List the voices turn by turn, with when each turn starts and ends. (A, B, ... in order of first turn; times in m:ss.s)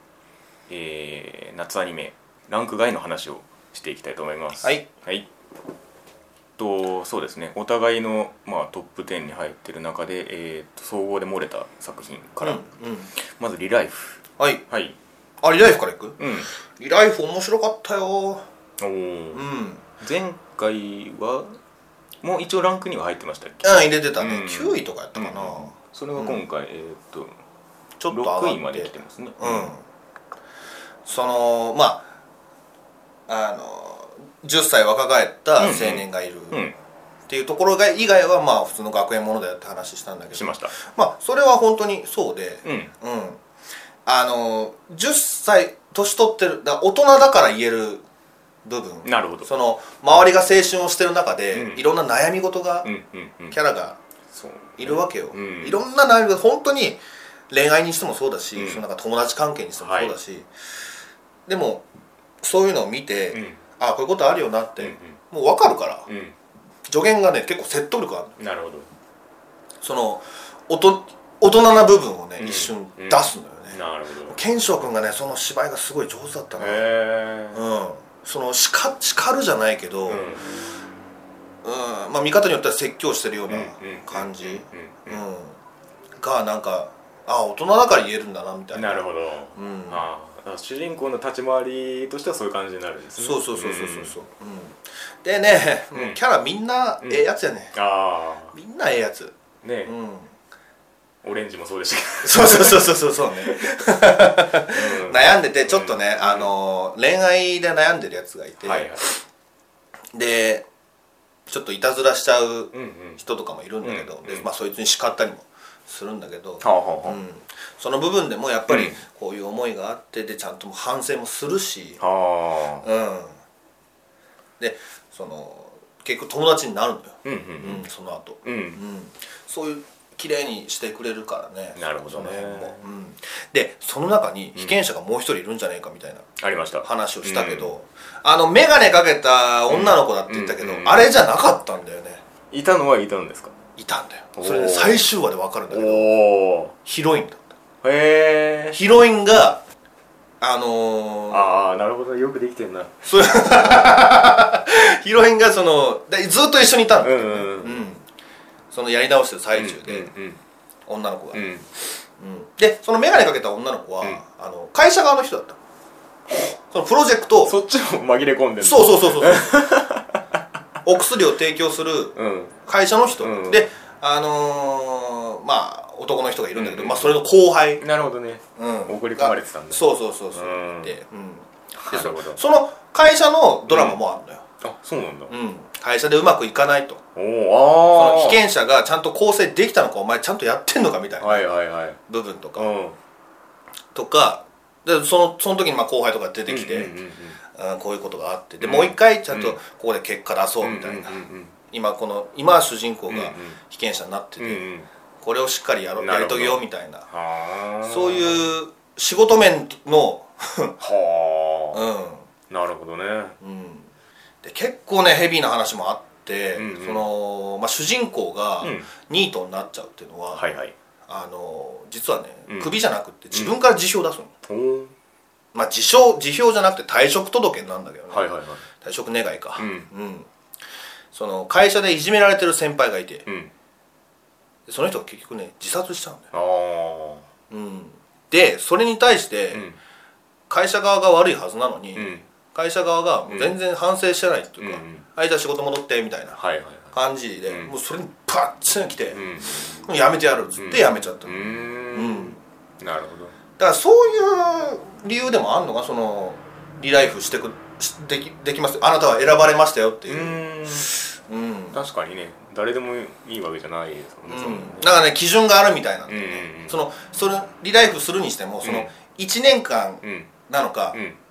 0:00.7-0:05.3 A
0:06.6-0:12.6 A
0:12.4-0:13.1 B
0:13.2-0:15.0 A
0:15.4-0:16.2 B
0:16.2-0:16.5 A
0:16.7-0:18.4 B
0:18.8-0:19.4 A
0:19.3-0:19.8 B
0:20.0-0:21.6 A
0:22.2-0:27.3 A
0:23.6-0:26.4 B
0:28.0-0:29.8 B
0:28.1-0:29.7 A
0:31.0-0:32.0 B
0:33.3-0:36.6 B
0:35.6-0:36.8 A
0:37.3-0:43.4 B
0:40.3-0:40.7 A
0:42.6-0:42.9 A
0:44.0-0:48.0 B
0:48.6-0:52.9 B
0:49.0-0:49.5 A
0:51.5-0:51.8 A
0:52.8-0:53.6 A
0:53.5-0:54.0 B
0:54.3-0:55.8 A
0:54.8-1:00.5 B
0:58.6-0:58.8 A
0:59.8-1:00.2 A
1:01.5-1:01.8 B
1:02.4-1:06.1 B
1:03.3-1:03.6 A
1:04.8-1:05.2 A
1:06.0-1:06.4 A
1:06.8-1:08.4 B
1:08.4-1:08.9 A
1:09.8-1:16.8 B
1:12.4-1:14.4 A
1:16.6-1:17.6 A
1:17.5-1:20.2 B
1:20.1-1:20.5 A
1:21.6-1:25.6 B
1:23.5-1:25.2 A
1:26.2-1:29.0 B
1:28.7-1:34.1 A
1:29.5-1:30.0 B
1:33.2-1:37.7 B
1:35.9-1:36.2 A
1:37.0-1:38.5 A
1:38.5-1:39.3 B
1:39.6-1:39.9 A
1:39.8-1:40.3 B
1:41.2-1:43.6 A
1:42.2-1:49.2 B
1:44.5-1:46.5 A
1:48.6-1:49.1 A
1:50.1-1:50.6 B
1:51.5-2:02.0 B
1:52.7-1:53.2 A
1:53.8-1:54.5 A
1:56.6-1:57.2 A
1:58.7-1:59.0 A
2:02.0-2:02.9 A
2:02.8-2:03.4 B
2:04.6-2:16.3 B
2:07.2-2:07.8 A
2:08.4-2:08.8 A
2:11.8-2:12.8 A
2:16.4-2:17.7 A
2:16.8-2:22.2 B
2:19.7-2:21.1 A
2:22.5-2:23.5 A
2:23.8-2:26.1 B
2:24.4-2:25.0 A
2:25.7-2:26.7 A
2:26.8-2:27.5 B
2:27.8-2:28.8 A
2:28.7-2:29.6 B
2:30.4-2:31.5 B
2:31.3-2:33.0 A
2:33.0-2:38.0 B
2:37.0-2:37.9 A
2:38.7-2:40.1 B
2:39.5-2:40.4 A
2:40.9-2:41.5 B
2:41.3-2:41.7 A
2:42.2-2:45.6 B
2:46.3-2:47.5 B
2:47.4-2:50.4 A
2:48.6-2:49.6 B
2:50.8-2:57.8 B
2:52.1-2:52.6 A
2:53.2-2:53.7 A
2:56.5-2:57.2 A
2:57.8-3:00.9 A
2:58.6-3:04.4 B
3:01.7-3:02.4 A
3:03.7-3:04.0 A
3:04.6-3:05.3 A
3:05.3-3:07.0 B
3:07.2-3:08.4 A
3:07.9-3:11.4 B
3:11.2-3:12.0 A
3:12.1-3:12.7 B
3:12.6-3:13.0 A
3:13.9-3:16.9 B
3:16.5-3:17.4 A
3:17.4-3:21.2 B
3:18.6-3:19.6 A
3:20.6-3:21.5 A
3:21.7-3:24.6 B
3:23.1-3:23.6 A
3:24.4-3:24.9 A
3:25.2-3:27.0 B
3:26.0-3:28.5 A
3:27.8-3:30.8 B
3:30.8-3:31.9 A
3:31.7-3:32.3 B
3:32.5-3:33.4 A
3:33.4-3:33.9 B
3:34.4-3:40.6 B
3:36.6-3:37.0 A
3:38.6-3:38.9 A
3:40.3-3:40.7 A
3:41.1-3:44.3 B
3:42.5-3:42.8 A
3:44.4-3:44.9 A
3:45.5-3:50.3 B
3:48.1-3:48.6 A
3:49.6-3:49.9 A
3:51.1-3:53.2 B
3:53.2-3:53.5 A
3:54.7-3:56.3 B
3:56.3-3:57.3 A
3:57.5-3:59.6 B
3:59.5-3:59.8 A
4:00.5-4:06.4 B
4:01.9-4:02.2 A
4:03.3-4:03.6 A
4:04.6-4:05.0 A
4:06.4-4:06.9 A
4:06.9-4:09.2 B
4:07.5-4:07.7 A
4:09.1-4:09.8 A
4:09.8-4:11.4 B
4:10.6-4:13.3 A
4:11.9-4:12.4 B
4:13.6-4:21.8 B
4:20.1-4:20.9 A
4:21.7-4:25.0 A
4:24.3-4:31.0 B
4:26.1-4:26.8 A
4:28.6-4:28.9 A
4:30.0-4:30.3 A
4:30.9-4:31.2 A